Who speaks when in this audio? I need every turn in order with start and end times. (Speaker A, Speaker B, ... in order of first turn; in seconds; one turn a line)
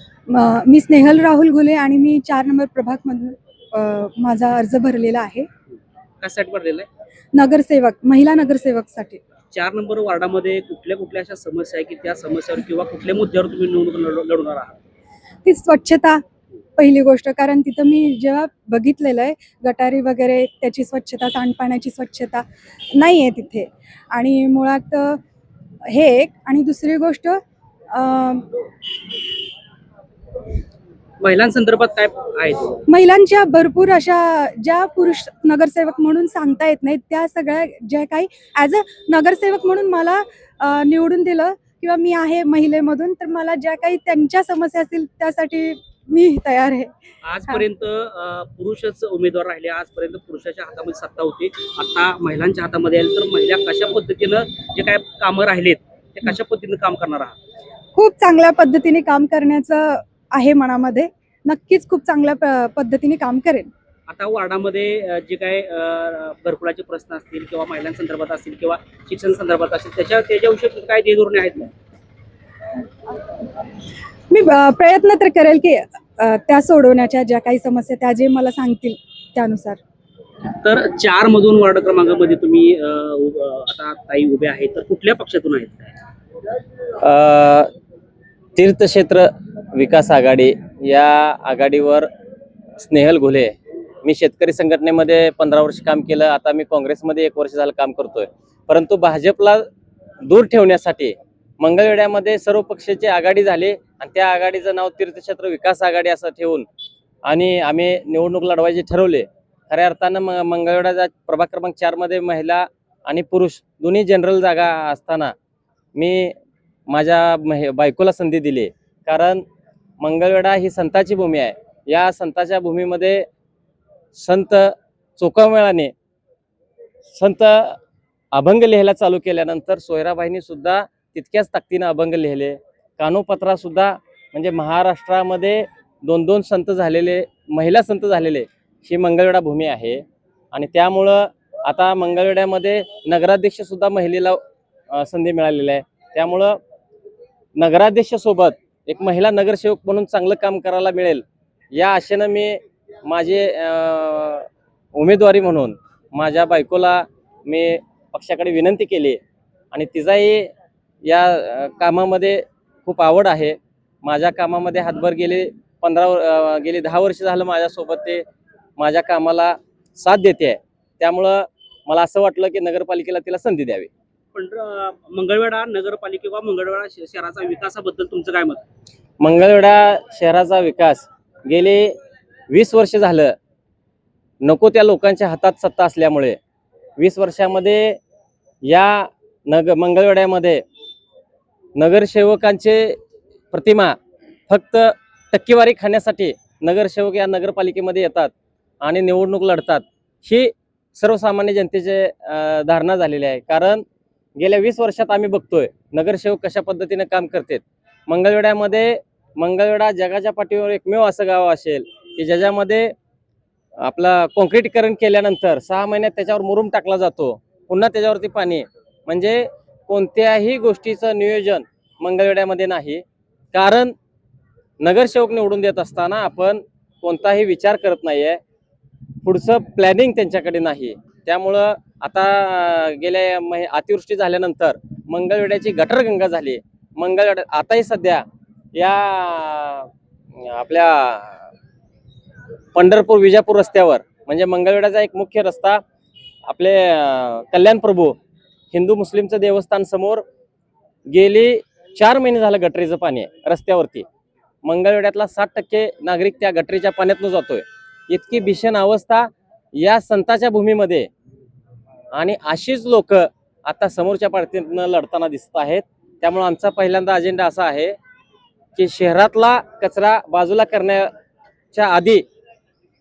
Speaker A: 0.7-5.5
Speaker B: 6.2-6.9
Speaker A: 7.4-9.2
Speaker B: 9.5-14.8
Speaker A: 15.5-16.2
Speaker A: 16.8-22.4
Speaker A: 23.0-25.1
Speaker A: 26.4-27.3
Speaker A: 28.0-28.4
Speaker B: 31.2-32.8
Speaker A: 32.9-40.0
Speaker A: 40.6-45.5
Speaker A: 46.1-46.9
Speaker B: 47.2-57.4
Speaker A: 58.0-63.7
Speaker B: 64.1-71.7
Speaker A: 74.3-79.8
Speaker B: 80.5-85.9
Speaker C: 87.0-87.7
Speaker C: 88.5-92.1
Speaker C: 92.8-99.6
Speaker C: 100.2-106.7
Speaker C: 107.2-115.3
Speaker C: 116.0-116.3
Speaker C: 116.9-119.4
Speaker C: 120.0-123.2
Speaker C: 124.2-125.9
Speaker C: 127.1-127.8
Speaker C: 128.3-144.4
Speaker C: 144.9-146.6
Speaker C: 147.6-159.2
Speaker C: 159.7-160.5
Speaker C: 161.0-168.2
Speaker C: 168.8-173.9
Speaker B: 174.3-178.6
Speaker C: 179.2-181.9
Speaker C: 182.5-183.3
Speaker C: 184.4-186.4
Speaker C: 187.0-188.0
Speaker C: 188.6-190.6
Speaker C: 191.8-193.0
Speaker C: 193.5-194.0
Speaker C: 194.5-198.3
Speaker C: 198.8-203.8
Speaker C: 204.4-212.9
Speaker C: 213.8-223.9
Speaker C: 224.8-228.4
Speaker C: 229.2-238.2
Speaker C: 238.7-241.5
Speaker C: 242.7-245.8
Speaker C: 246.5-248.2
Speaker C: 248.7-250.2
Speaker C: 251.1-254.1
Speaker C: 254.6-261.1
Speaker C: 262.1-267.9
Speaker C: 268.8-271.1
Speaker C: 271.7-272.2